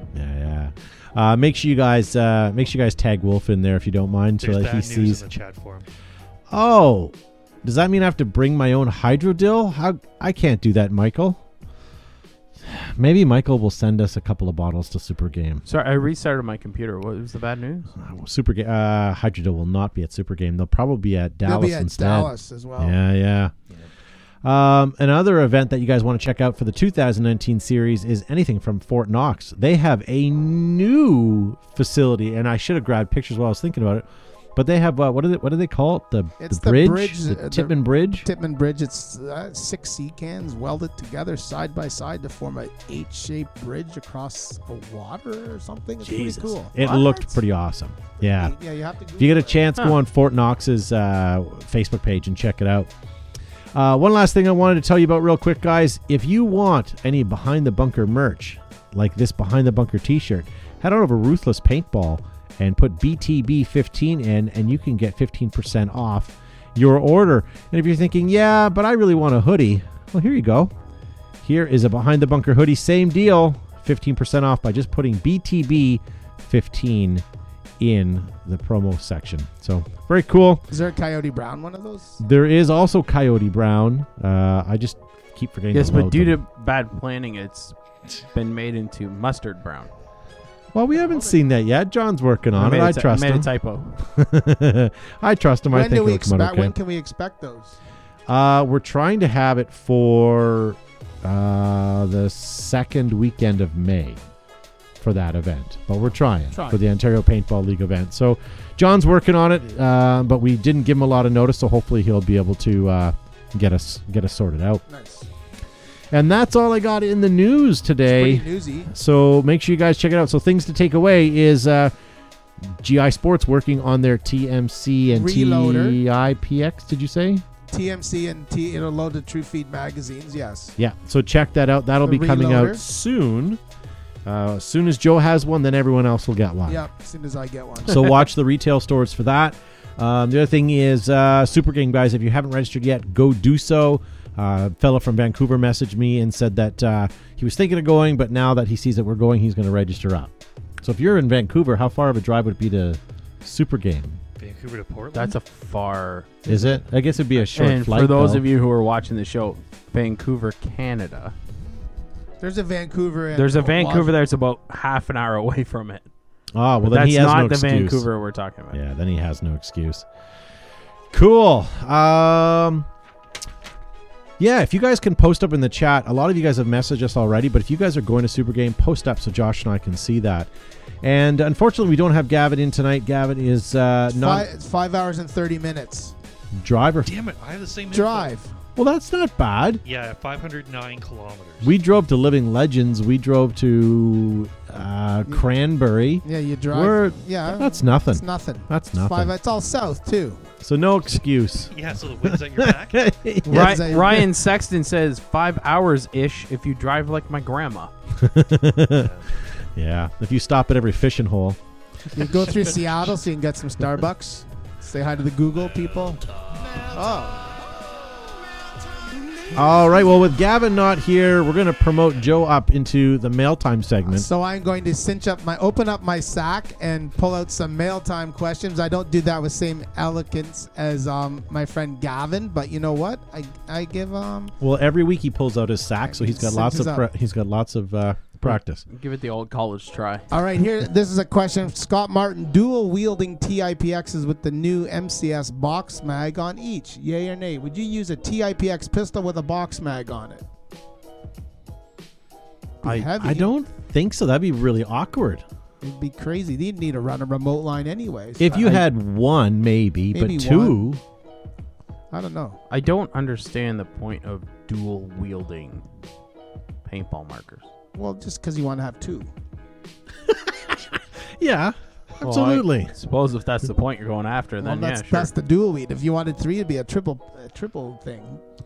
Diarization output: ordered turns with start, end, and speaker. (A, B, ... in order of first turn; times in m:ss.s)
0:00.1-0:05.2 A
0:04.4-0:05.9 B
0:06.5-0:11.4 A
0:12.6-0:15.6 A
0:15.7-0:17.9 C
0:18.0-0:23.5 A
0:21.4-0:23.0 D
0:24.4-0:38.3 A
0:36.4-0:47.1 D
0:46.0-0:48.6 A
0:48.2-0:49.6 D
0:49.2-0:52.9 A
0:53.7-1:10.7 A
1:11.4-1:17.2 A
1:17.8-1:20.6 A
1:20.7-1:22.2 D
1:22.2-1:26.4 A
1:25.7-1:29.9 C
1:30.7-1:33.5 A
1:32.6-1:34.0 C
1:34.0-1:36.7 A
1:35.7-1:37.8 D
1:38.3-1:44.2 A
1:45.0-1:54.8 A
1:46.5-1:46.8 D
1:54.9-1:55.3 D
1:56.1-2:01.9 A
1:58.0-1:58.9 D
2:02.6-2:07.4 A
2:05.1-2:06.0 D
2:07.7-2:10.8 D
2:10.8-2:13.6 A
2:12.0-2:12.8 D
2:14.2-2:16.8 A
2:16.7-2:18.1 D
2:17.9-2:34.2 A
2:34.4-2:35.4 B
2:35.1-2:36.5 C
2:36.5-2:38.4 A
2:36.5-2:36.8 D
2:37.4-2:41.3 C
2:42.4-2:44.1 D
2:43.4-2:46.0 C
2:46.5-2:48.1 A
2:46.8-2:48.8 C
2:48.7-2:50.1 A
2:51.1-2:52.9 A
2:54.4-3:00.5 A
3:01.0-3:04.5 A
3:04.1-3:06.2 D
3:06.5-3:07.1 A
3:07.1-3:08.4 B
3:07.9-3:08.5 D
3:08.8-3:09.8 A
3:09.8-3:11.7 B
3:11.6-3:19.3 A
3:16.2-3:20.5 D
3:20.6-3:24.2 A
3:21.7-3:23.1 B
3:23.4-3:24.3 D
3:23.5-3:27.9 C
3:28.2-3:29.1 A
3:29.0-3:29.3 B
3:29.8-3:31.6 A
3:32.1-3:38.0 D
3:38.8-3:40.2 D
3:39.5-3:44.3 A
3:44.1-3:54.6 D
3:54.6-3:58.8 A
3:56.0-3:57.1 D
3:58.9-4:00.3 C
4:00.3-4:10.4 D
4:12.8-4:13.5 D
4:12.8-4:15.4 A
4:15.8-4:18.9 D
4:18.4-4:21.0 A
4:20.1-4:20.8 D
4:22.1-4:22.6 D
4:22.7-4:25.8 C
4:26.9-4:27.7 C
4:27.9-4:29.3 D
4:30.3-4:32.9 A
4:32.2-4:35.3 C
4:34.6-4:38.4 D